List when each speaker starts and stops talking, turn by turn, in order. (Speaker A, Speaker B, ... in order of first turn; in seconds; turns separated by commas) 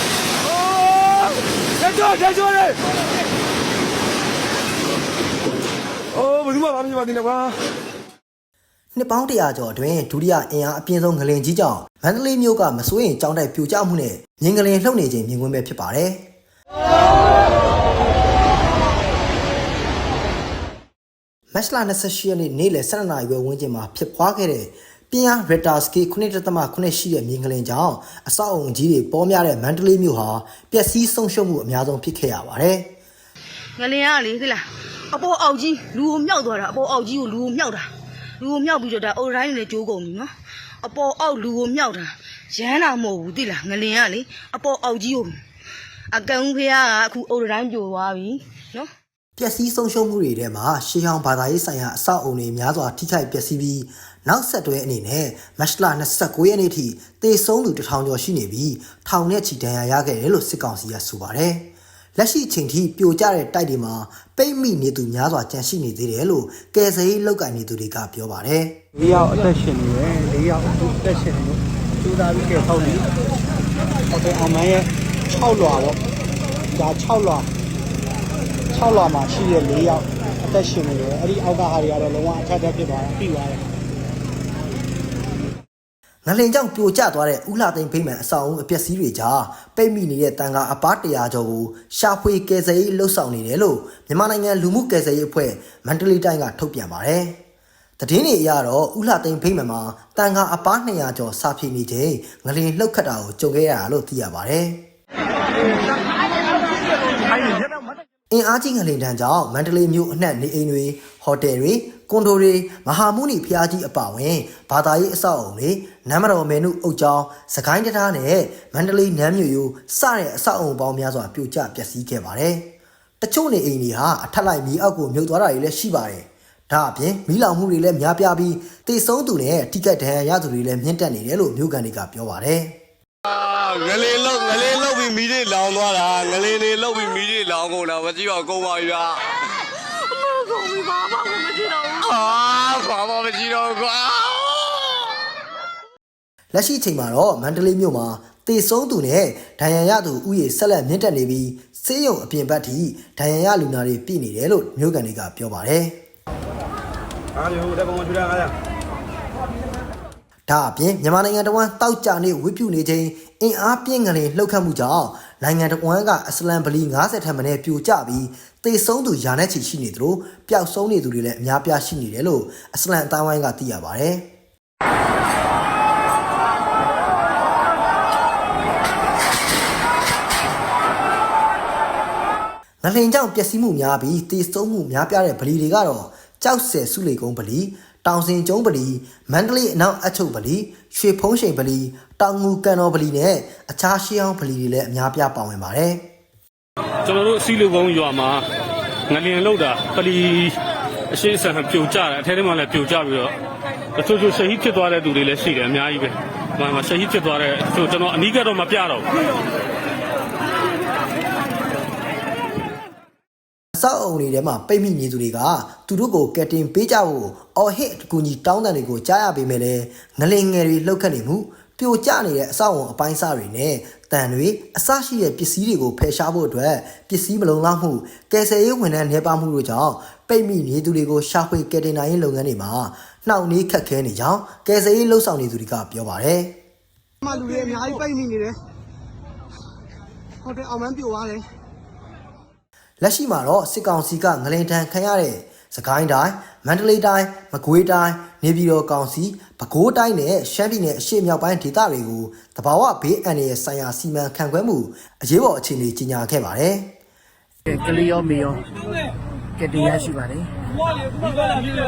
Speaker A: 0.5-2.8, Speaker A: 6.1-7.6, Speaker B: 8.9-16.2, Speaker B: 21.5-32.9, Speaker C: 33.8-40.3, Speaker C: 40.8-45.3, Speaker C: 46.1-48.9, Speaker B: 49.4-68.8, Speaker D: 68.9-73.0, Speaker D: 74.1-76.0, Speaker D: 76.8-77.5, Speaker D: 78.7-83.7, Speaker B: 86.2-97.4, Speaker B: 98.0-104.8, Speaker B: 108.3-122.7, Speaker B: 123.2-132.8, Speaker E: 133.2-139.3, Speaker E: 140.1-145.1, Speaker B: 146.5-155.9, Speaker E: 157.8-158.1, Speaker B: 160.5-174.3, Speaker B: 182.8-196.1, Speaker F: 197.0-198.4, Speaker F: 199.1-200.6, Speaker F: 201.1-203.3, Speaker F: 203.9-209.1, Speaker B: 213.7-236.6, Speaker D: 237.2-238.6, Speaker D: 240.4-241.4, Speaker B: 243.0-256.9, Speaker G: 257.6-258.8, Speaker G: 259.6-260.5